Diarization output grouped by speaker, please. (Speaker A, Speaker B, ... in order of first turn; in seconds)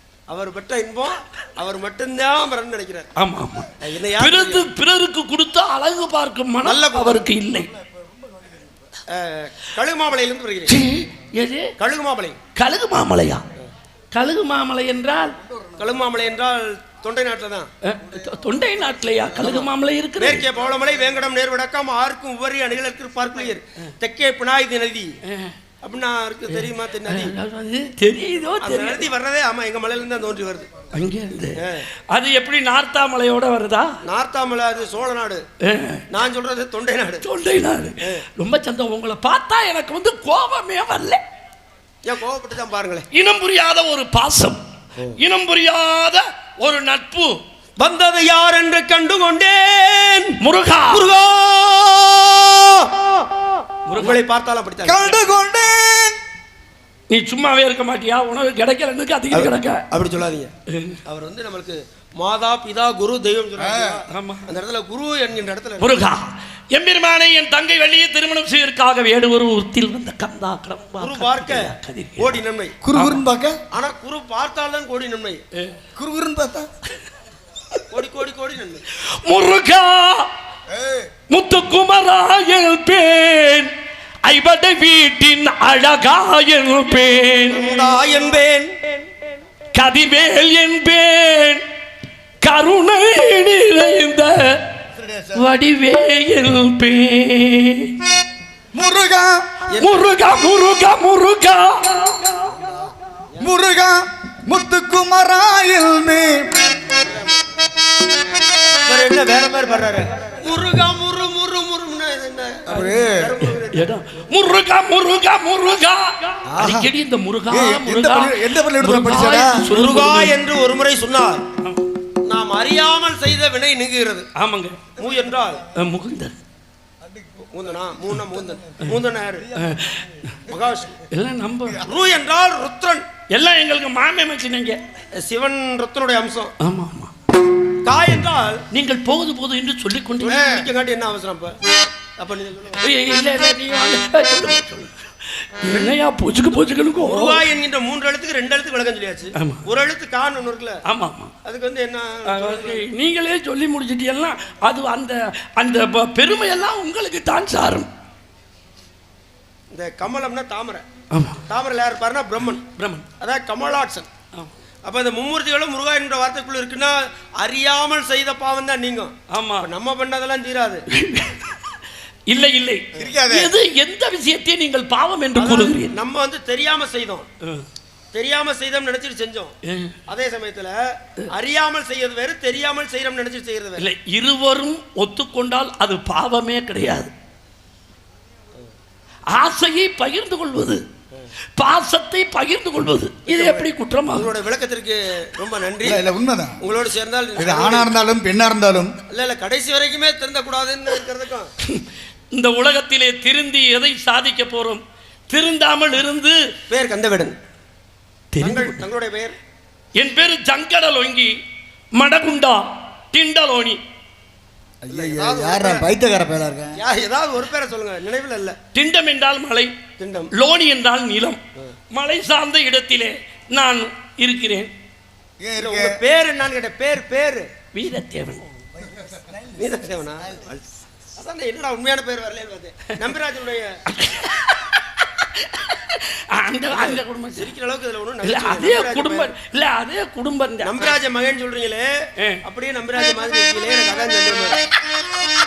Speaker A: 0.3-3.1, 3.8-4.7, 6.6-7.3, 9.1-10.8, 11.8-12.4, 15.8-17.7, 19.3-25.1, 25.8-27.3, 28.6-30.7, 31.6-31.8, 34.0-35.4, 36.1-37.2, 42.0-43.1, 47.8-50.4, 50.9-53.3, 53.9-55.2, 59.3-60.5, 61.0-66.0, 71.0-72.7, 73.7-75.4, 77.9-78.8, 87.5-88.8, 99.7-100.1, 106.8-107.4, 108.8-113.9, 119.7-121.4, 122.2-124.3, 125.0-125.6, 127.5-129.5, 130.5-131.0, 131.8-133.0, 135.2-136.5, 137.8-138.6, 140.2-141.6, 142.2-142.8, 145.7-145.9, 146.9-150.8, 151.4-152.8, 159.7-160.8, 161.5-162.6, 163.2-164.1, 164.8-170.8, 175.3-177.3, 178.1-179.5, 180.1-180.8, 181.3-183.9, 193.3-196.0, 196.6-197.9, 199.1-201.5, 206.7-207.3, 208.4-209.3, 214.9-215.8, 216.7-218.6, 220.0-220.3, 225.6-227.5, 229.6-230.5, 231.2-233.8, 236.7-239.3, 240.6-241.9, 242.4-244.6
Speaker B: 3.1-7.7, 10.7-11.7, 12.5-13.4, 14.1-15.4, 17.8-20.4, 25.2-25.5, 26.5-29.1, 30.9-34.0, 35.6-36.0, 37.2-41.2, 43.1-44.6, 45.2-47.4, 50.4-51.1, 53.9-54.2, 57.1-59.8, 60.7-61.0, 64.1-64.5, 65.8-72.4, 72.9-73.2, 79.0-80.3, 81.3-83.7, 84.2-87.8, 89.7-91.6, 92.4-94.6, 95.3-98.0, 99.8-102.5, 112.7-120.4, 121.6-121.9, 124.3-124.8, 125.7-126.4, 129.6-130.3, 131.1-131.8, 133.3-134.8, 136.6-137.1, 138.7-140.6, 142.8-147.4, 149.4-149.6, 150.9-151.3, 152.2-157.9, 161.1-161.4, 162.7-163.0, 169.3-169.7, 170.9-175.9, 179.6-179.9, 183.8-187.1, 189.3-190.8, 191.6-194.3, 201.6-206.4, 208.3-208.8, 209.9-211.4, 211.9-213.8, 218.7-219.7, 220.3-221.4, 221.9-224.7, 227.7-228.4, 233.9-237.5, 238.2-240.9
Speaker C: 54.8-56.2, 63.6-64.0, 72.8-73.6, 76.0-76.7, 80.7-81.1, 94.9-95.4, 98.7-99.6, 103.4-106.7, 112.7-113.3, 116.5-116.9, 117.5-119.6, 127.0-130.0, 173.0-173.5, 195.8-196.6, 197.4-198.9, 214.8-216.8, 225.4-226.0, 228.9-229.6, 230.2-230.6